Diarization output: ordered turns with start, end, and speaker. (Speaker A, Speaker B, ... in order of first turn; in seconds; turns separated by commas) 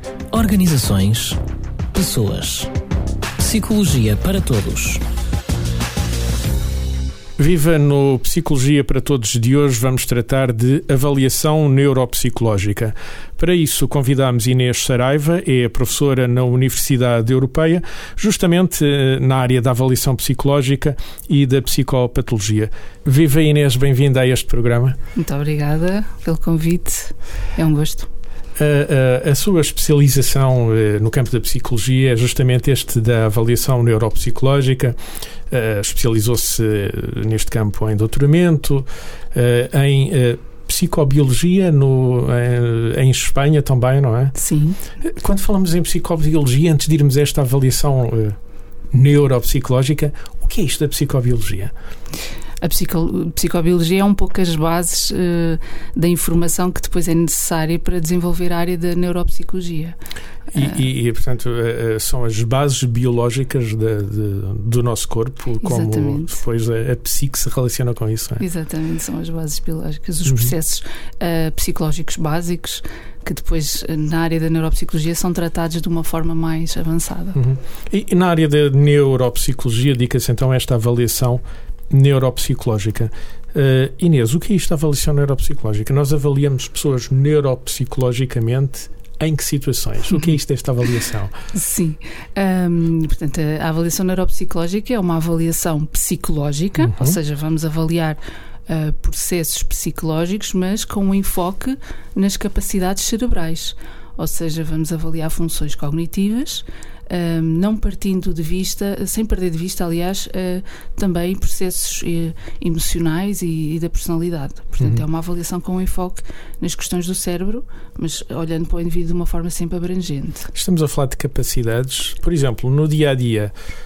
Speaker A: 0.3-1.4, Speaker A: 1.9-2.7, Speaker A: 3.4-5.0, Speaker B: 7.4-25.0, Speaker C: 25.1-28.1, Speaker B: 28.6-35.0, Speaker B: 35.5-44.4, Speaker C: 44.4-44.8, Speaker B: 45.0-48.4, Speaker B: 48.9-51.7, Speaker C: 52.6-60.0, Speaker C: 60.5-60.8, Speaker B: 60.5-68.4, Speaker C: 65.6-66.4, Speaker C: 68.4-77.4, Speaker B: 70.3-70.5, Speaker B: 77.3-91.3, Speaker C: 91.5-120.5, Speaker B: 96.8-97.2, Speaker B: 120.5-123.5